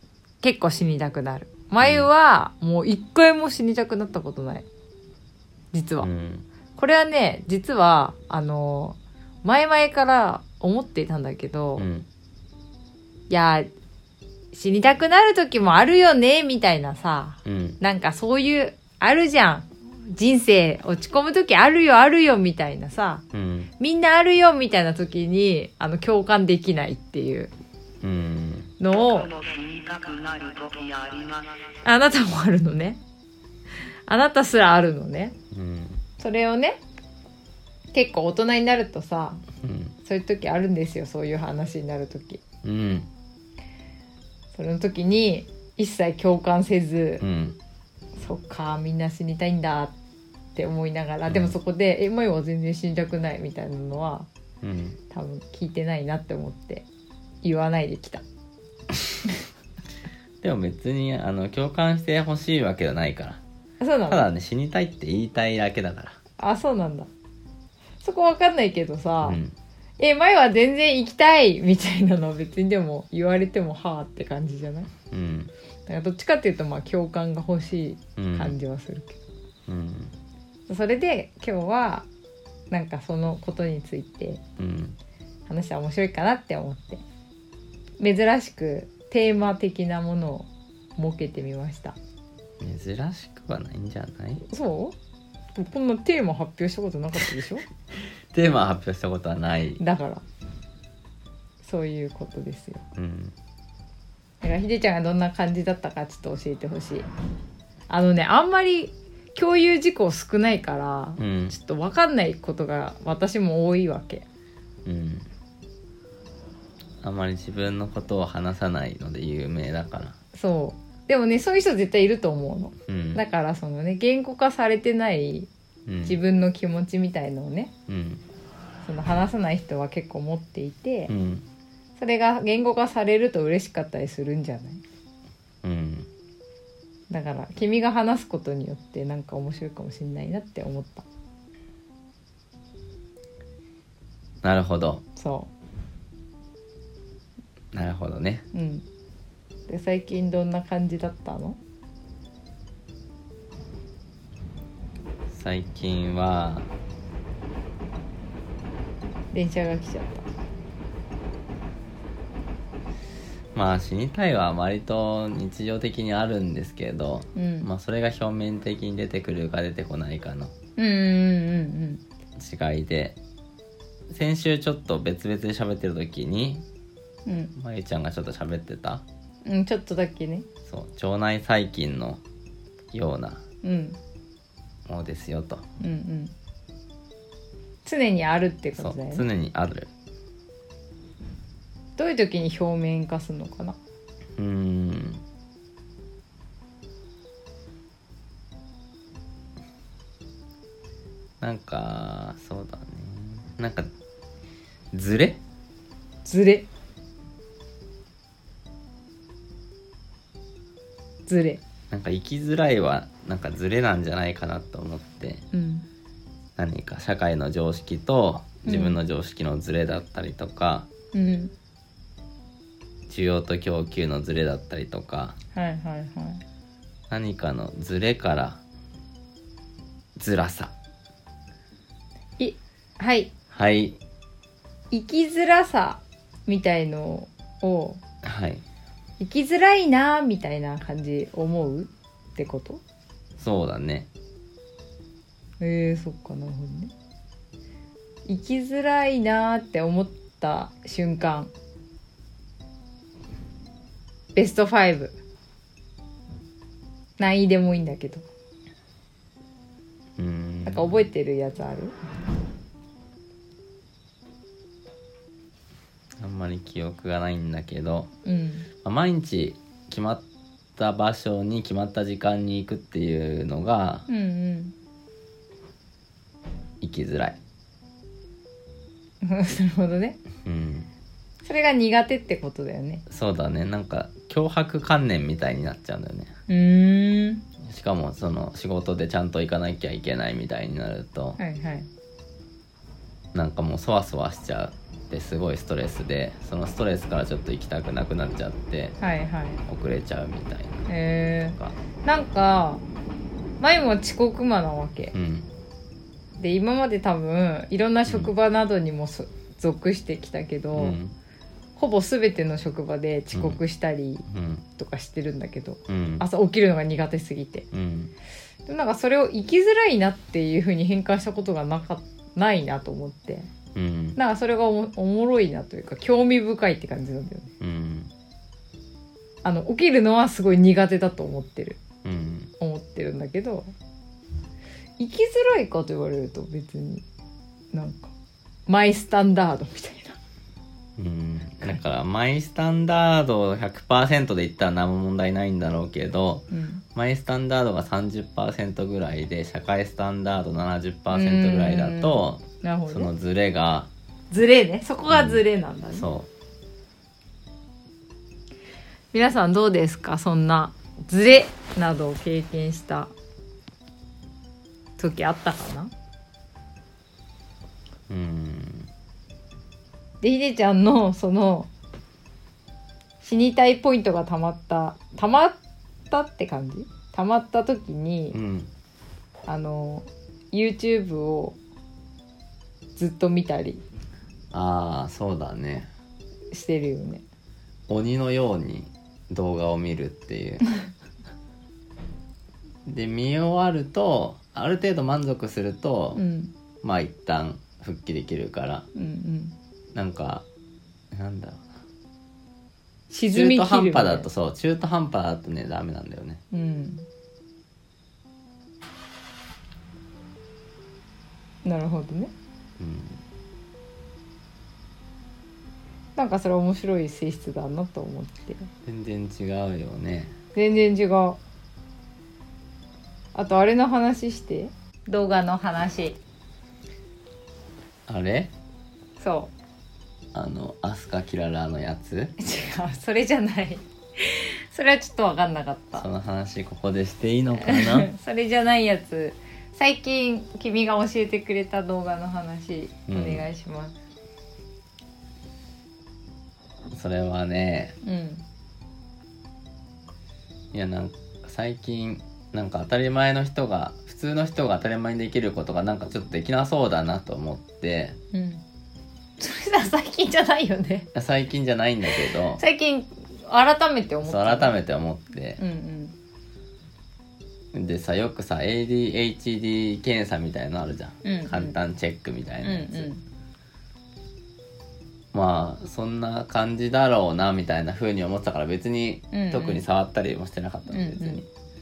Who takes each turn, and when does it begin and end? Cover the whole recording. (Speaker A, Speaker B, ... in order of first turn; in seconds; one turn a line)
Speaker A: 0.4-4.7
Speaker B: 1.8-2.1
Speaker A: 5.7-6.1
Speaker B: 6.0-6.5
Speaker A: 6.8-11.9
Speaker B: 11.8-12.1
Speaker A: 13.3-13.7
Speaker A: 14.5-23.2
Speaker B: 17.4-17.8
Speaker B: 23.3-23.7
Speaker A: 23.8-27.5
Speaker B: 28.0-28.7
Speaker A: 28.8-29.3
Speaker C: 28.9-31.7
Speaker A: 31.8-33.0
Speaker A: 34.1-35.4
Speaker B: 35.5-36.0
Speaker A: 36.2-36.8
Speaker A: 37.9-39.4
Speaker B: 39.6-40.0
Speaker A: 40.0-42.4
Speaker B: 42.6-43.1
Speaker A: 44.5-47.2
Speaker B: 47.2-47.6
Speaker A: 48.2-49.9
Speaker A: 50.5-54.3
Speaker B: 51.3-51.5
Speaker B: 54.6-55.0
Speaker A: 55.1-56.9
Speaker A: 57.4-58.2
Speaker B: 60.4-63.4
Speaker A: 63.8-64.3
Speaker B: 64.1-66.2
Speaker A: 66.4-67.1
Speaker A: 68.0-69.4
Speaker B: 69.2-69.5
Speaker A: 70.0-74.9
Speaker B: 75.1-75.5
Speaker A: 75.9-79.2
Speaker B: 78.2-78.6
Speaker B: 79.7-80.1
Speaker A: 80.7-82.1
Speaker A: 82.7-84.4
Speaker B: 84.6-85.0
Speaker A: 85.5-87.0
Speaker A: 88.0-92.0
Speaker B: 92.6-94.5
Speaker A: 94.5-95.0
Speaker A: 95.6-97.7
Speaker B: 98.3-99.8
Speaker A: 99.8-100.2
Speaker A: 101.6-102.8
Speaker B: 103.0-103.3
Speaker A: 104.4-107.1
Speaker A: 107.9-114.2
Speaker B: 111.2-111.5
Speaker B: 114.8-115.3
Speaker B: 117.0-120.2
Speaker A: 120.3-125.5
Speaker B: 122.9-123.2
Speaker B: 125.9-126.2
Speaker A: 126.0-127.7
Speaker B: 127.9-128.2
Speaker A: 128.8-131.1
Speaker B: 131.1-131.5
Speaker A: 132.0-134.8
Speaker B: 135.6-136.1
Speaker A: 137.1-141.1
Speaker B: 144.4-145.0
Speaker A: 145.2-145.5
Speaker B: 147.7-148.4
Speaker A: 148.5-148.8
Speaker A: 149.7-151.6
Speaker B: 155.3-156.7
Speaker A: 159.3-160.2
Speaker B: 163.5-170.6
Speaker A: 167.3-167.7
Speaker A: 170.8-172.0
Speaker B: 172.4-173.2
Speaker B: 174.1-176.7
Speaker A: 177.3-177.5
Speaker B: 177.6-179.0
Speaker A: 179.4-180.5
Speaker B: 180.7-182.2
Speaker B: 182.9-183.4
Speaker A: 183.6-184.0
Speaker B: 184.9-185.7
Speaker A: 185.8-186.3
Speaker A: 187.8-189.2
Speaker B: 188.8-189.9
Speaker A: 192.0-193.8
Speaker B: 194.4-195.2
Speaker B: 201.4-203.9
Speaker B: 204.9-205.4
Speaker A: 206.2-206.7
Speaker A: 211.3-211.6
Speaker B: 211.9-215.4
Speaker A: 215.5-215.8
Speaker B: 216.6-220.9
Speaker A: 218.7-219.0
Speaker A: 221.1-221.5
Speaker B: 223.1-225.4
Speaker A: 225.5-226.4
Speaker B: 227.1-228.6
Speaker B: 230.2-230.7
Speaker A: 232.4-233.3
Speaker B: 233.5-234.0
Speaker A: 234.9-238.0
Speaker B: 238.2-238.6
Speaker A: 239.2-242.8
Speaker B: 243.4-244.1
Speaker A: 245.6-246.9
Speaker A: 248.3-251.5
Speaker A: 254.3-255.2
Speaker A: 257.2-258.2
Speaker B: 260.2-261.0
Speaker A: 260.6-261.9
Speaker B: 266.2-268.1
Speaker A: 268.2-268.7
Speaker B: 268.8-270.2
Speaker B: 270.8-274.1
Speaker A: 274.1-274.7
Speaker B: 276.8-277.4
Speaker A: 279.2-280.2
Speaker B: 280.4-280.9
Speaker A: 281.4-283.0
Speaker B: 283.1-286.4
Speaker A: 286.5-287.4
Speaker B: 287.6-291.4
Speaker A: 291.4-291.9
Speaker B: 293.3-299.0
Speaker A: 299.0-299.6
Speaker B: 299.7-300.9
Speaker A: 300.9-302.8
Speaker A: 303.6-305.1
Speaker B: 305.1-305.5
Speaker A: 306.4-311.0
Speaker B: 308.1-308.3
Speaker B: 310.7-311.1
Speaker A: 311.8-314.2
Speaker B: 313.3-313.6
Speaker B: 314.3-314.6
Speaker A: 314.8-317.7
Speaker B: 315.9-316.3
Speaker B: 317.7-318.1
Speaker A: 318.7-323.5
Speaker B: 323.7-324.2
Speaker A: 324.2-327.5
Speaker B: 327.6-328.1
Speaker A: 329.4-331.8
Speaker B: 332.0-332.5
Speaker A: 332.6-333.7
Speaker A: 335.0-337.1
Speaker A: 337.7-338.1
Speaker A: 338.7-340.2
Speaker B: 341.0-353.9
Speaker A: 346.5-346.8
Speaker A: 351.1-353.1
Speaker A: 354.3-356.1
Speaker B: 355.1-356.3
Speaker A: 359.1-363.1
Speaker A: 365.0-365.9
Speaker B: 368.1-368.9
Speaker A: 370.2-371.7
Speaker A: 373.2-375.6
Speaker A: 376.1-378.4
Speaker B: 378.3-378.7
Speaker A: 379.5-381.6
Speaker A: 383.0-383.8
Speaker B: 384.5-385.9
Speaker A: 386.5-387.2
Speaker B: 387.9-390.6
Speaker B: 392.9-396.2
Speaker A: 396.1-396.5
Speaker B: 396.8-398.9
Speaker A: 398.9-399.6
Speaker B: 399.9-400.4
Speaker B: 401.1-401.7
Speaker A: 403.1-404.3
Speaker B: 403.3-406.4
Speaker A: 406.5-407.1
Speaker A: 411.6-412.3
Speaker B: 412.8-413.2
Speaker A: 416.2-418.7
Speaker B: 418.9-420.4
Speaker A: 420.6-421.4
Speaker A: 423.4-426.2
Speaker B: 428.1-428.5
Speaker A: 429.2-429.5
Speaker B: 430.3-432.3
Speaker A: 432.4-436.1
Speaker B: 435.9-438.1
Speaker A: 437.6-443.9
Speaker B: 443.1-443.5
Speaker B: 446.9-448.0
Speaker A: 448.0-448.4
Speaker B: 450.7-458.2
Speaker A: 458.3-458.6
Speaker A: 459.4-461.1
Speaker B: 461.1-462.6
Speaker A: 462.6-464.7
Speaker B: 464.2-465.6
Speaker A: 465.6-466.1
Speaker B: 467.7-473.1
Speaker A: 471.2-471.8
Speaker A: 472.6-473.2
Speaker B: 475.3-481.5
Speaker A: 479.3-479.8
Speaker A: 480.9-481.4